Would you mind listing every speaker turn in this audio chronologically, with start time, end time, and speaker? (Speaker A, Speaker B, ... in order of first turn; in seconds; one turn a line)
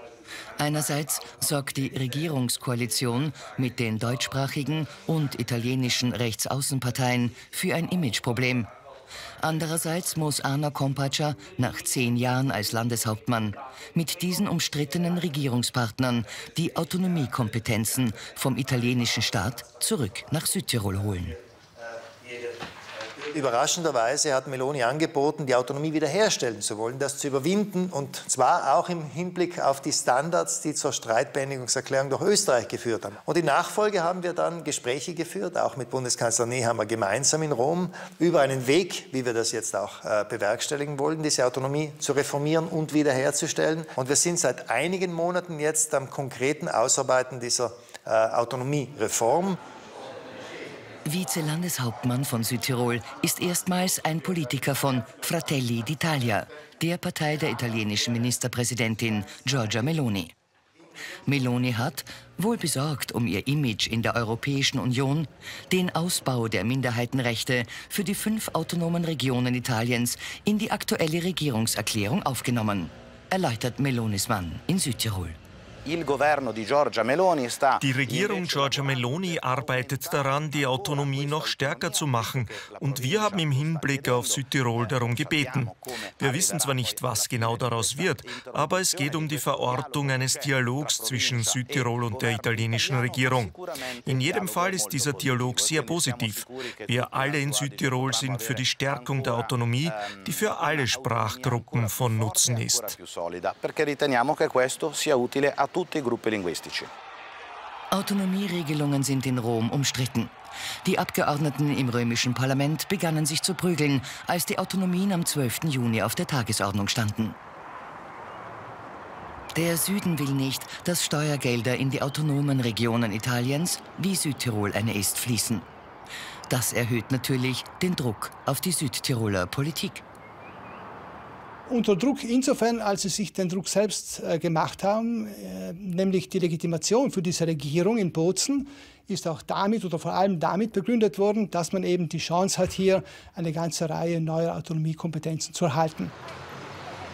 Speaker A: 0.6-8.7
Speaker A: 9.4-21.4
Speaker B: 23.3-49.6
Speaker A: 51.0-60.3
Speaker A: 61.2-75.4
Speaker C: 77.8-103.0
Speaker A: 107.9-117.3
Speaker A: 119.5-125.7
Speaker A: 126.5-130.0
Speaker D: 131.7-146.1